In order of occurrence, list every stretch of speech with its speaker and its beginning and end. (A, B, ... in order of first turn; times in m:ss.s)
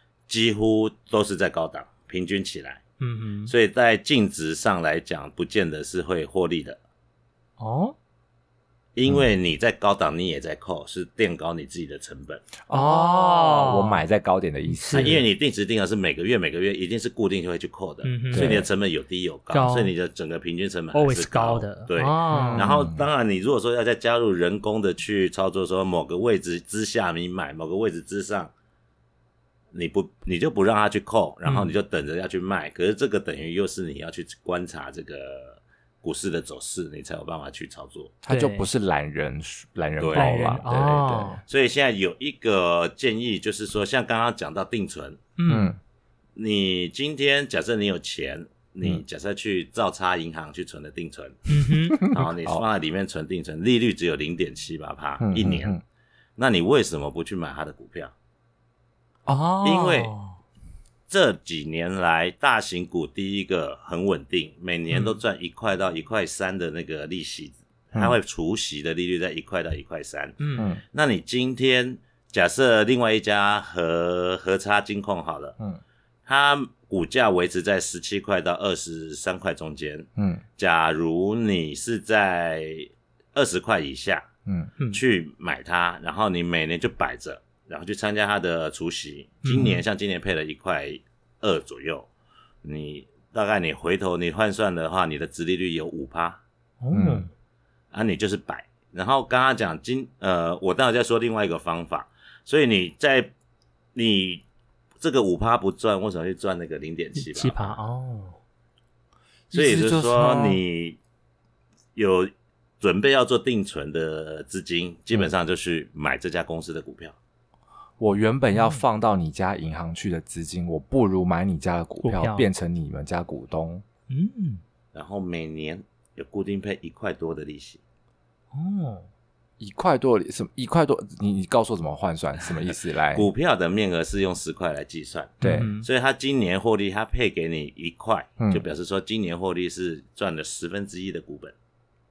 0:00.3-0:02.8 A
0:03.0-0:03.5 B
0:03.5-0:06.8 A
0:07.6-0:08.0 B
0:09.0-0:12.5 A
0:12.7-0:15.2 C
0:12.7-0:14.0 B
0:14.7-0:15.2 B
0:15.0-0:28.5 A
0:18.0-0:18.6 B
0:18.3-0:18.7 C
0:19.5-0:19.9 B
0:20.9-0:22.7 B
0:22.3-0:23.1 C
0:29.7-0:38.2 A
0:31.4-0:31.7 B
0:38.2-0:41.4 C
0:38.3-0:38.7 B
0:40.0-0:40.4 A
0:40.2-0:41.4 B
0:41.4-0:45.3 A
0:45.4-0:45.7 B
0:45.5-0:45.8 C
0:46.4-0:55.8 A
0:51.5-0:52.0 B
0:52.0-0:52.6 C
0:55.2-0:55.8 C
0:56.4-0:58.1 A
0:59.3-1:00.4 B
0:59.6-1:00.1 A
1:01.1-1:10.4 A
1:04.9-1:05.2 B
1:10.4-1:10.7 B
1:10.6-1:10.8 C
1:10.9-1:15.6 A
1:16.3-1:24.3 A
1:20.2-1:20.4 C
1:24.5-1:24.7 C
1:24.9-1:32.1 A
1:29.4-1:29.8 B
1:32.6-1:36.4 A
1:36.8-1:37.3 B
1:36.9-1:37.3 C
1:37.9-1:43.3 A
1:43.9-1:44.4 A
1:45.0-1:47.8 A
1:47.2-1:48.4 B
1:49.5-1:50.6 C
1:49.5-1:51.0 A
1:52.0-1:57.2 A
1:58.0-2:03.8 C
1:58.5-1:58.8 B
2:02.0-2:02.5 B
2:04.1-2:04.6 B
2:04.9-2:07.8 A
2:08.5-2:09.1 B
2:09.6-2:13.3 C
2:13.1-2:21.5 A
2:15.4-2:15.7 C
2:15.4-2:15.9 B
2:18.4-2:18.6 C